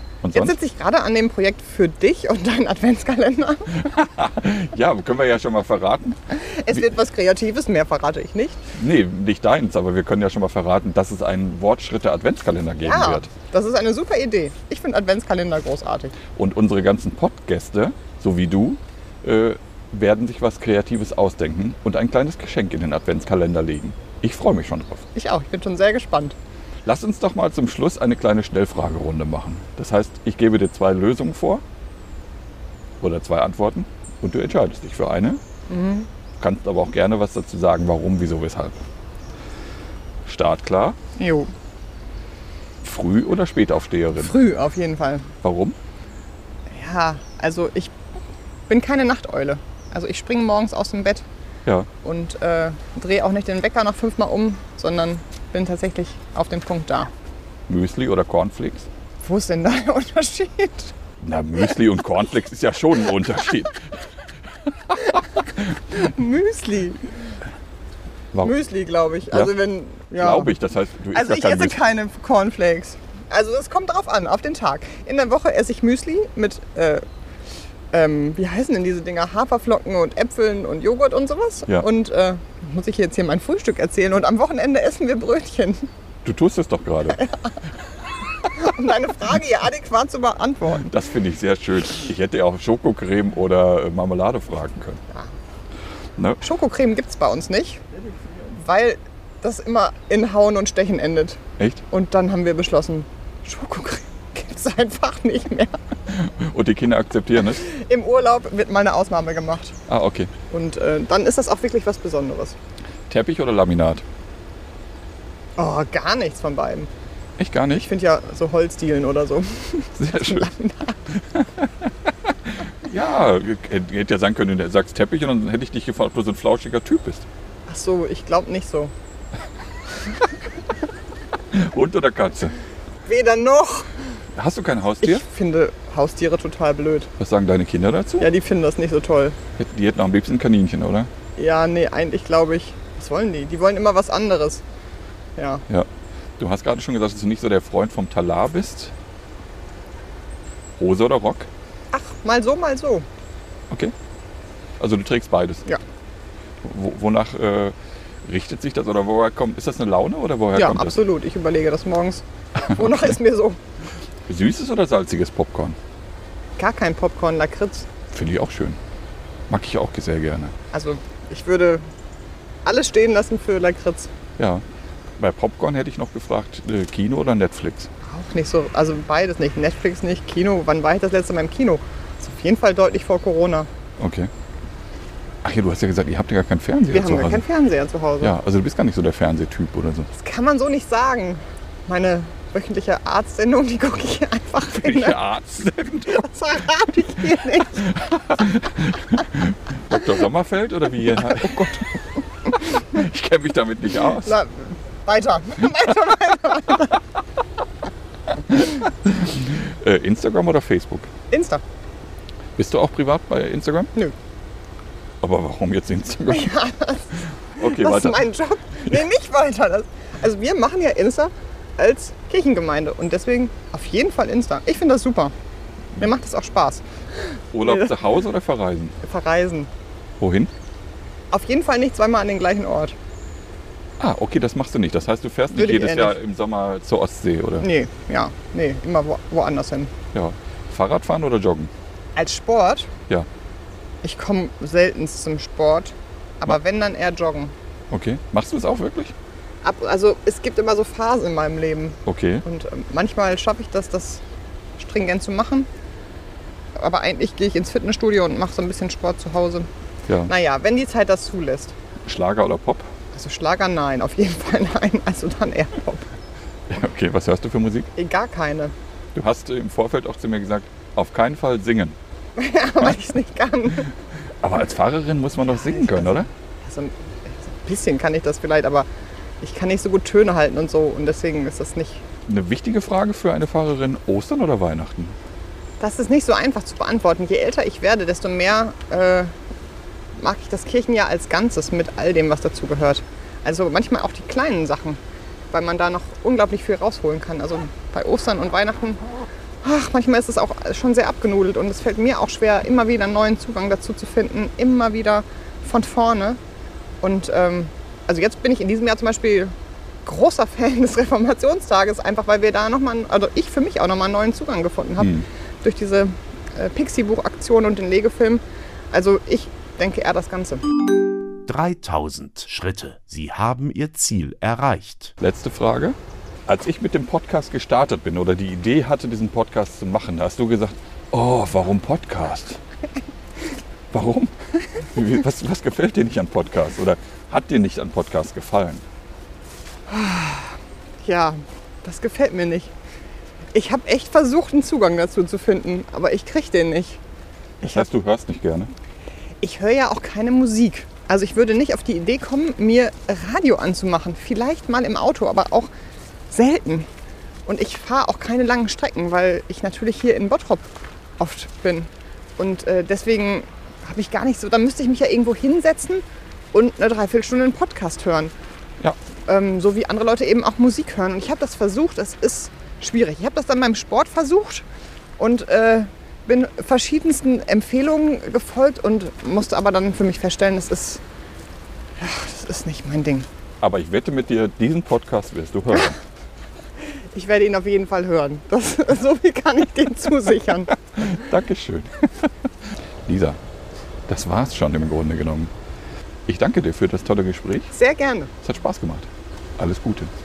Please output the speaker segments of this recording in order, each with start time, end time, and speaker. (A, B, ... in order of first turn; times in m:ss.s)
0:00.2-0:00.6 A
0:00.3-0:03.9 B
0:03.8-0:06.8 A
0:06.3-0:08.7 B
0:08.7-0:13.3 A
0:12.8-0:16.1 B
0:16.3-0:25.1 A
0:25.1-0:26.4 B
0:26.8-0:31.6 A
0:33.0-0:35.4 A
0:35.7-0:36.1 B
0:36.4-0:38.8 A
0:40.2-0:41.0 A
0:41.2-0:41.5 B
0:42.8-0:44.4 A
0:44.1-0:45.3 B
0:45.4-0:45.8 A
0:46.7-0:48.0 B
0:48.7-0:51.2 B
0:52.0-0:57.1 B
0:57.7-0:58.9 A
0:59.2-1:00.9 B
1:01.2-1:04.0 A
1:04.7-1:05.8 A
1:05.1-1:07.0 B
1:08.4-1:10.5 B
1:10.2-1:11.8 A
1:11.1-1:17.0 B
1:17.9-1:25.9 B
1:26.2-1:27.2 A
1:27.1-1:27.5 B
1:28.4-1:30.9 B
1:30.7-1:35.0 A
1:36.2-1:36.4 A
1:36.4-1:37.8 B
1:38.5-1:45.8 B
1:41.6-1:41.8 A
1:46.1-1:47.7 A
1:47.5-1:49.8 B
1:49.9-1:50.3 A
1:50.5-1:52.6 B
1:53.1-1:54.0 A
1:55.6-1:56.9 B
1:57.4-1:57.9 A
1:57.8-2:01.1 B
2:00.0-2:00.5 A
2:01.2-2:07.2 A
2:07.7-2:08.9 B
2:11.5-2:12.5 A
2:13.0-2:14.0 B
2:14.3-2:15.2 A
2:15.0-2:17.1 B
2:17.2-2:18.3 A
2:18.2-2:19.4 B
2:19.6-2:21.1 A
2:21.4-2:24.6 B
2:25.4-2:25.6 B
2:26.4-2:28.9 A
2:30.8-2:31.5 A
2:31.9-2:33.1 B
2:34.8-2:35.6 A
2:36.6-2:41.0 A
2:40.5-2:43.6 B
2:42.6-2:43.0 A
2:44.3-2:45.8 A
2:46.6-2:47.9 B
2:48.1-2:48.8 A
2:49.5-2:50.5 A
2:50.7-2:51.9 B
2:52.6-2:54.1 B
2:54.4-2:54.6 A
2:55.2-2:57.9 A
2:58.0-3:03.7 B
3:04.0-3:04.3 A
3:05.4-3:07.4 A
3:06.9-3:08.3 B
3:08.2-3:10.1 A
3:10.1-3:15.2 B
3:14.6-3:16.3 A
3:16.1-3:18.0 B
3:17.8-3:24.4 A
3:24.2-3:27.0 B
3:28.4-3:31.1 A
3:31.3-3:31.6 B
3:32.6-3:33.9 A
3:35.2-3:36.5 A
3:36.3-3:45.3 B
3:37.6-3:38.2 A
3:46.0-3:46.9 B
3:47.5-3:49.0 A
3:47.6-3:48.0 B
3:49.0-3:49.7 B
3:50.2-3:50.5 A
3:51.3-3:53.0 B
3:54.0-3:57.7 A
3:55.5-3:56.2 B
3:57.6-3:59.9 B
4:00.1-4:01.7 A
4:02.1-4:02.9 B
4:04.0-4:07.5 B
4:07.9-4:09.1 A
4:09.6-4:14.2 B
4:12.0-4:12.4 A
4:14.8-4:15.7 B
4:16.7-4:19.7 B
4:20.1-4:20.3 A
4:20.3-4:21.7 B
4:22.0-4:22.9 A
4:23.1-4:26.1 B
4:26.7-4:27.9 A
4:27.9-4:28.7 B
4:29.1-4:32.0 A
4:32.4-4:33.9 B
4:34.4-4:36.3 A
4:35.5-4:38.9 B
4:39.4-4:42.0 B
4:42.2-4:45.2 A
4:45.8-4:49.3 B
4:50.2-4:59.0 B
4:59.6-5:06.4 B
5:07.0-5:20.6 B
5:15.0-5:15.3 A
5:21.5-5:25.1 C
5:25.2-5:32.6 A
5:33.9-5:38.8 A
5:39.9-5:42.7 B
5:43.5-5:47.0 B
5:47.6-5:47.9 B
5:47.6-5:48.7 A
5:49.4-5:55.7 B
5:56.3-5:56.9 B
5:57.4-6:08.3 B
6:09.2-6:14.6 B
6:15.2-6:21.0 B
6:22.0-6:23.3 B
6:23.6-6:26.0 A
6:27.0-6:30.8 B
6:31.0-6:32.3 A
6:33.0-6:33.4 A
6:34.1-6:35.5 A
6:36.3-6:37.7 A
6:37.7-6:38.3 B
6:38.4-6:40.1 A